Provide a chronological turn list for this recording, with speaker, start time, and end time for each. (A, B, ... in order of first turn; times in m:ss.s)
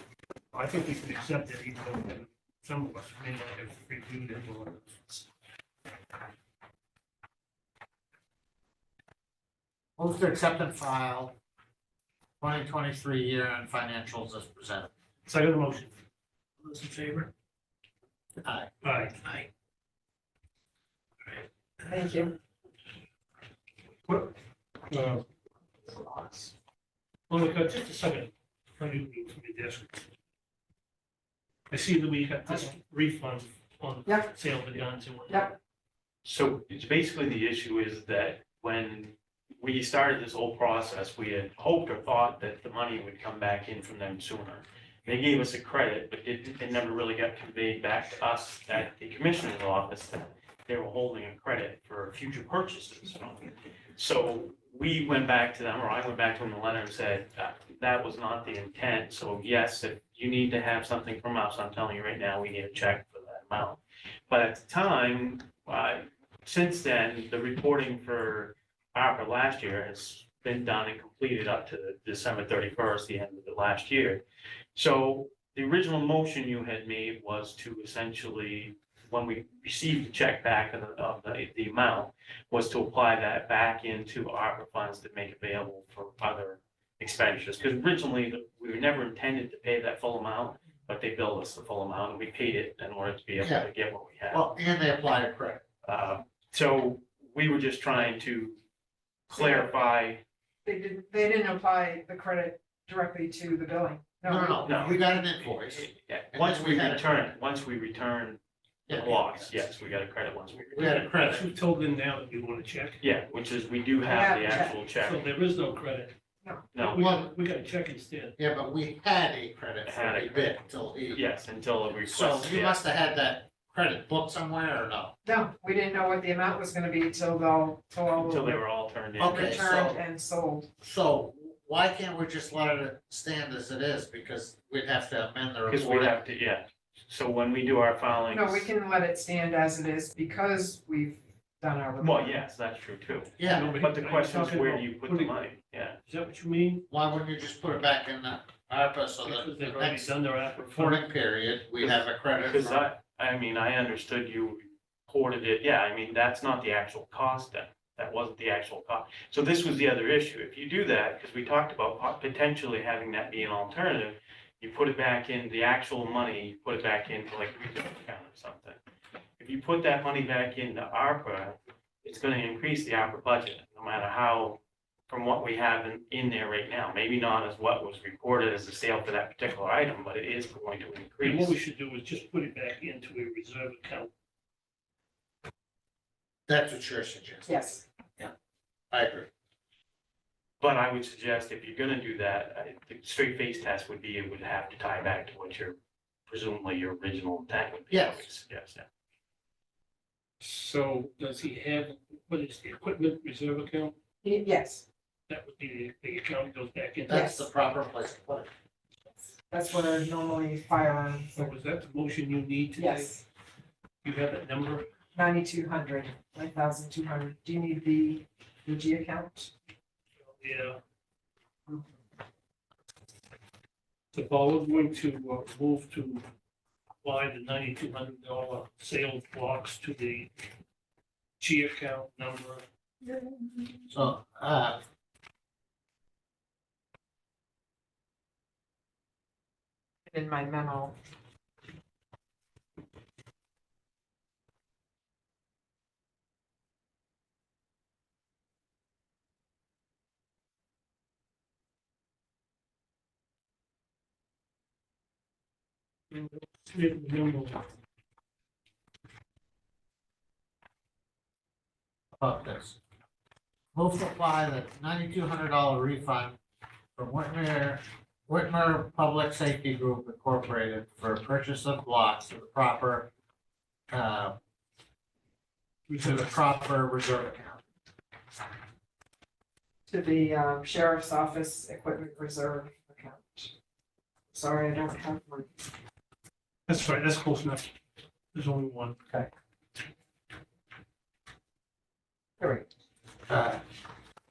0:00.5-0:05.3 A
0:10.0-0:11.4 B
0:12.4-0:14.9 B
0:15.2-0:15.9 A
0:16.6-0:17.3 A
0:18.4-0:18.7 B
0:18.8-0:19.5 A
0:21.2-0:21.9 A
0:21.9-0:22.3 C
0:24.9-0:25.2 A
0:27.3-0:30.1 A
0:31.7-0:35.6 A
0:34.1-0:34.3 C
0:35.3-0:35.6 C
0:36.2-1:14.2 D
1:14.8-1:34.4 D
1:33.4-1:33.7 B
1:34.3-1:35.6 B
1:35.8-1:38.6 D
1:39.3-1:40.2 D
1:39.4-1:39.7 C
1:40.6-1:44.9 C
1:44.2-1:47.0 B
1:44.6-1:51.0 D
1:48.9-1:49.5 B
1:50.7-1:51.5 B
1:50.8-1:53.0 A
1:53.0-1:55.3 D
1:54.0-1:54.8 C
1:54.9-1:56.1 A
1:56.7-1:57.1 D
1:56.8-1:58.4 A
1:56.9-1:57.4 B
1:58.4-2:01.2 B
1:59.8-2:00.6 D
2:01.1-2:02.8 D
2:02.1-2:05.1 B
2:05.2-2:08.6 C
2:08.2-2:09.6 D
2:09.2-2:10.0 B
2:09.2-2:10.7 C
2:10.8-2:16.2 B
2:15.7-2:18.7 D
2:18.3-2:22.4 C
2:22.0-2:26.0 D
2:23.4-2:23.8 B
2:23.4-2:25.3 A
2:26.1-2:26.8 A
2:26.9-2:32.8 B
2:29.2-2:31.0 A
2:31.8-2:48.8 D
2:49.4-3:01.6 D
3:01.2-3:04.1 A
3:06.5-3:08.3 B
3:07.5-3:07.9 C
3:08.9-3:09.3 B
3:10.6-3:15.8 D
3:16.3-3:18.9 D
3:17.9-3:18.3 B
3:20.4-3:24.0 A
3:24.2-3:24.9 C
3:25.3-3:27.3 A
3:27.1-3:28.5 B
3:27.1-3:27.4 C
3:29.5-3:31.6 C
3:31.4-3:33.2 A
3:32.8-3:33.2 C
3:34.0-3:34.9 A
3:35.2-3:39.5 C
3:40.2-3:40.8 A
3:44.1-3:46.2 A
3:47.0-3:50.3 A
3:51.4-3:52.6 A
3:53.9-3:54.8 B
4:00.1-4:01.0 C
4:16.1-4:17.8 A
4:22.2-4:22.8 B
4:23.7-4:26.4 B
4:27.0-4:33.1 B
4:33.9-4:34.4 B
4:35.9-4:36.3 A
4:36.0-4:37.6 B
4:39.9-4:43.5 C
4:44.3-4:45.5 C
4:46.7-4:47.7 A
4:48.3-4:49.0 A
4:52.4-4:52.7 C
4:53.3-4:53.6 B